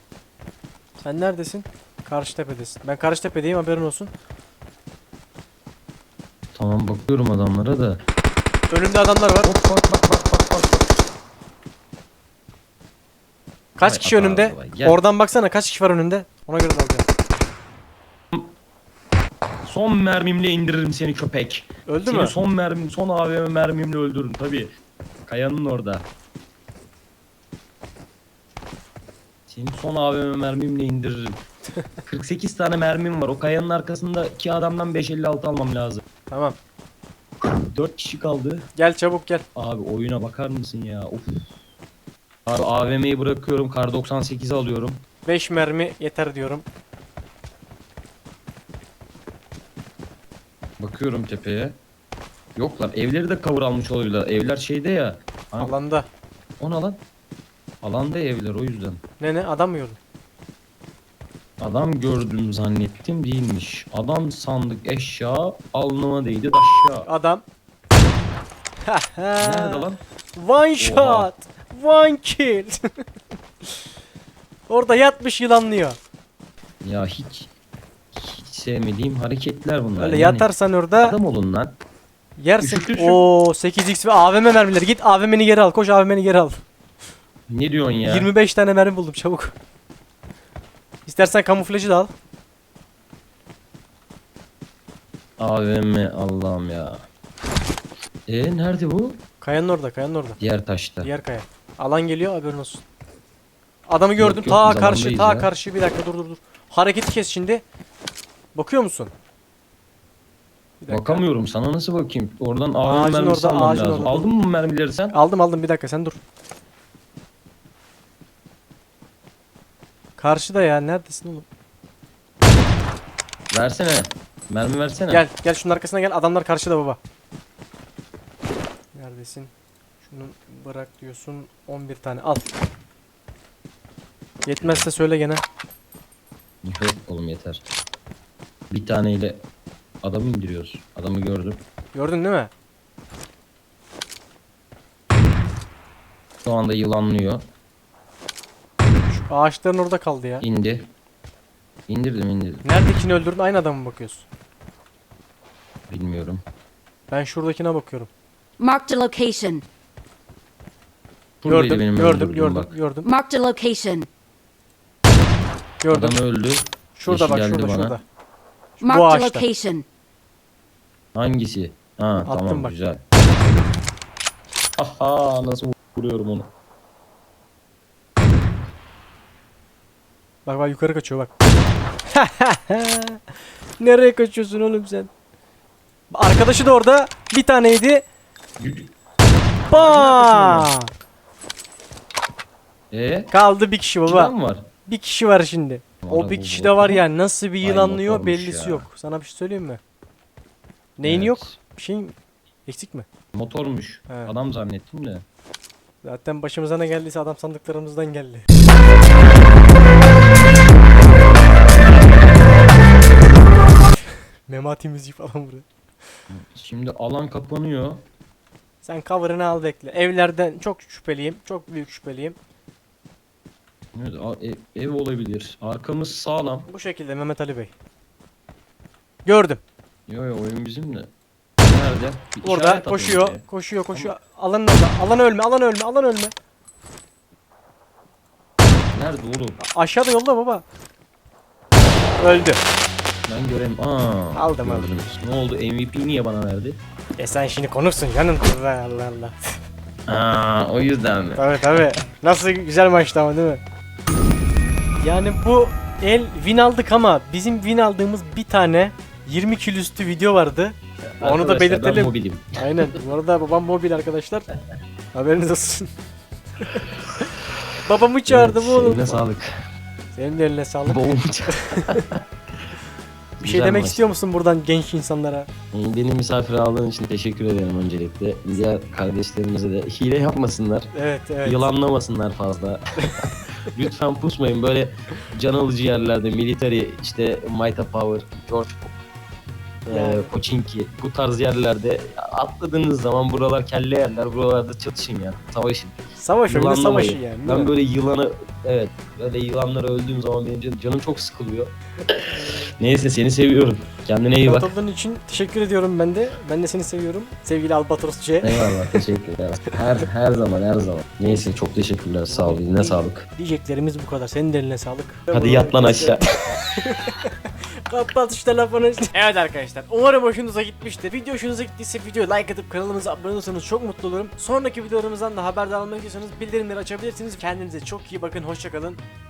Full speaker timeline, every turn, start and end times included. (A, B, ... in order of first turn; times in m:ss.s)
0:01.0-0:04.1 A
0:06.5-0:08.0 B
0:08.7-0:09.5 A
0:09.4-0:10.8 B
0:13.8-0:17.0 A
0:13.8-0:15.0 B
0:19.6-0:24.7 B
0:21.9-0:22.3 A
0:25.2-0:26.0 B
0:29.5-0:31.4 B
0:32.0-0:36.0 B
0:36.3-0:36.6 A
0:37.5-0:38.7 B
0:38.8-0:39.4 A
0:39.5-0:41.4 B
0:42.4-0:45.0 B
0:45.2-0:46.6 A
0:50.8-0:51.8 B
0:52.6-0:55.8 B
0:55.6-0:56.1 A
0:56.6-0:57.0 B
0:57.8-0:59.0 B
0:59.2-1:00.0 A
1:01.6-1:07.1 B
1:07.0-1:07.4 A
1:08.9-1:09.8 A
1:09.4-1:10.0 B
1:10.4-1:12.8 A
1:10.8-1:11.3 B
1:14.7-1:16.0 A
1:16.8-1:17.5 B
1:18.1-1:20.5 B
1:20.0-1:21.2 A
1:21.0-1:21.8 B
1:22.4-1:26.6 A
1:22.6-1:23.2 B
1:27.5-1:28.3 B
1:28.0-1:29.5 A
1:31.1-1:32.1 A
1:35.4-1:37.0 B
1:38.3-1:39.2 B
1:39.4-1:40.4 A
1:40.4-1:41.1 B
1:41.0-1:42.8 A
1:43.9-1:47.6 A
1:44.2-1:45.5 B
1:48.5-1:49.1 A
1:50.8-1:51.2 A
1:50.9-1:55.2 B
1:52.8-1:54.2 A
1:55.1-1:56.2 A
2:00.2-2:01.4 A
2:03.5-2:05.2 B
2:05.1-2:07.0 A
2:08.9-2:09.5 A
2:10.0-2:12.5 A
2:14.4-2:15.4 A
2:14.6-2:14.9 B
2:16.6-2:17.6 B
2:18.7-2:19.4 B
2:20.0-2:21.6 B
2:21.9-2:22.5 A
2:26.4-2:27.4 B
2:29.1-2:30.4 A
2:30.4-2:30.9 B
2:31.9-2:32.6 B
2:32.6-2:34.2 A
2:35.9-2:36.4 B
2:37.1-2:38.1 A
2:38.6-2:39.6 C
2:41.4-2:42.7 B
2:41.4-2:43.1 A
2:43.0-2:44.1 C
2:45.8-2:46.2 A
2:45.9-2:48.0 B
2:46.9-2:48.0 A
2:48.8-2:49.4 A
2:48.8-2:49.8 C
2:51.1-2:53.0 B
2:52.2-2:52.7 A
2:54.8-2:56.5 B
3:00.4-3:01.3 A
3:02.1-3:03.2 A
3:03.8-3:05.1 A
3:06.1-3:08.0 A
3:08.6-3:08.9 B
3:09.7-3:10.7 B
3:09.7-3:10.9 A
3:12.9-3:13.3 B
3:13.3-3:14.3 A
3:14.0-3:14.7 B
3:14.8-3:19.8 A
3:16.0-3:17.0 B
3:17.6-3:18.8 B
3:21.0-3:22.1 A
3:21.0-3:21.6 B
3:22.6-3:23.0 A
3:23.3-3:25.2 B
3:26.0-3:28.4 A
3:34.5-3:35.6 A
3:36.3-3:38.0 B
3:38.8-3:42.4 A
3:43.9-3:46.7 B
3:46.7-3:47.7 A
3:49.2-3:49.6 A
3:50.1-3:51.1 B
3:51.7-3:53.4 B
3:52.4-3:56.3 A
3:58.9-3:59.6 B
3:59.6-4:00.6 A
4:02.2-4:02.6 A
4:03.3-4:06.8 B
4:04.3-4:04.9 A
4:07.2-4:09.6 A
4:10.1-4:12.0 B
4:11.4-4:13.6 A
4:15.0-4:24.5 A
4:21.2-4:23.0 B
4:25.1-4:25.9 A
4:26.6-4:26.9 A
4:27.8-4:29.3 A
4:28.3-4:29.6 B
4:30.1-4:32.0 A
4:30.8-4:32.2 B
4:33.4-4:34.1 B
4:33.4-4:35.5 A
4:35.7-4:40.9 B
4:40.9-4:41.7 A
4:41.4-4:48.9 B
4:49.8-4:56.0 B
4:49.9-4:50.3 A
4:56.2-4:57.7 A
4:56.5-5:04.7 B
5:02.2-5:02.7 A
5:04.4-5:09.0 A
5:08.4-5:13.2 B
5:12.3-5:29.0 A
5:15.3-5:16.2 B